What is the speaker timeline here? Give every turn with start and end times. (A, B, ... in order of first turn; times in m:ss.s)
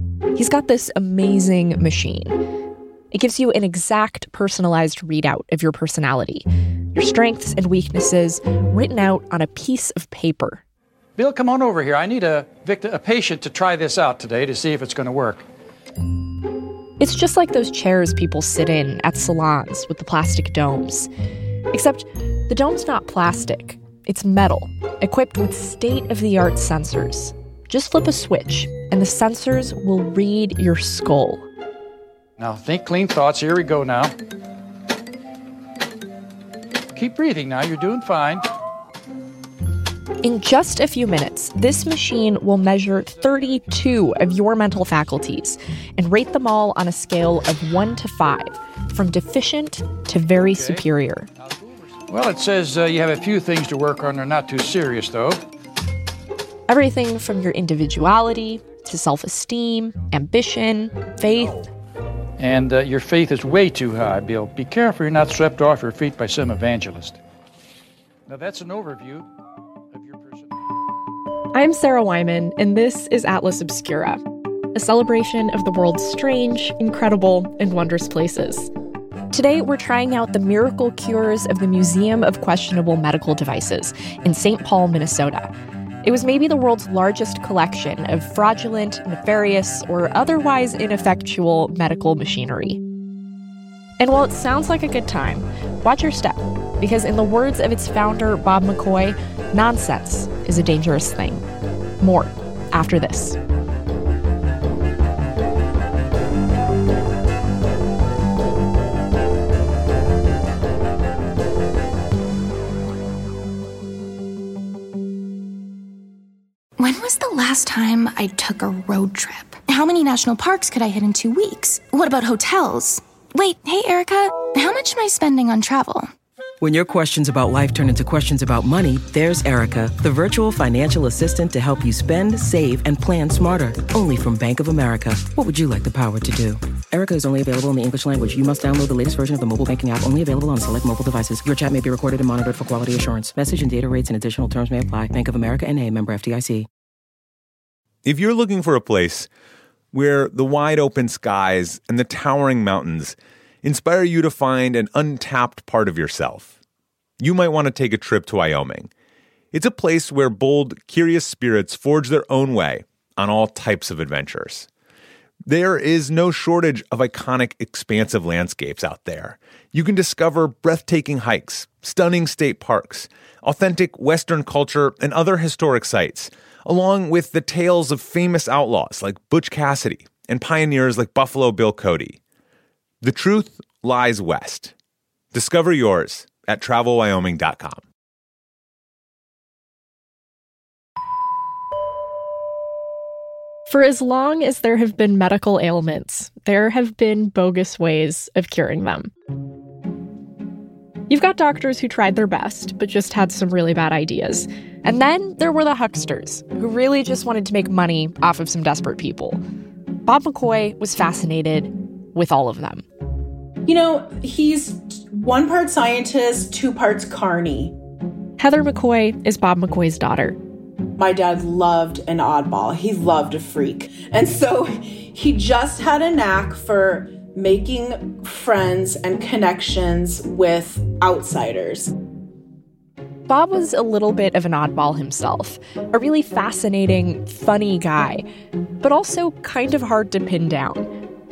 0:00.4-0:02.4 A
0:03.1-0:10.6 A
0:11.2-0:15.4 B
0:17.0-0:21.1 A
0:21.7-0:31.4 A
0:32.4-0:34.1 B
0:37.0-0:38.4 B
0:40.2-0:51.3 A
0:50.4-0:50.8 B
0:51.6-0:55.4 B
0:56.7-1:01.7 A
1:02.4-1:07.2 B
1:08.3-1:09.3 B
1:09.9-1:10.5 B
1:11.5-1:14.2 A
1:14.7-1:18.7 A
1:19.3-1:25.5 A
1:26.0-1:32.8 A
1:34.0-1:41.4 A
1:42.0-1:43.4 A
1:56.8-2:06.1 C
2:06.6-2:26.7 D
2:28.0-2:29.3 E
2:29.9-2:36.5 E
2:37.2-2:38.9 E
2:39.5-2:44.7 E
2:45.5-3:02.2 E
3:03.0-3:04.7 E
3:05.3-3:07.8 E
3:13.7-3:19.1 A
3:21.1-3:29.4 A
3:30.0-3:32.8 A
3:33.7-3:37.8 F
3:38.4-3:40.4 A
3:41.0-3:51.9 F
3:53.3-3:58.2 A
3:58.8-4:00.9 A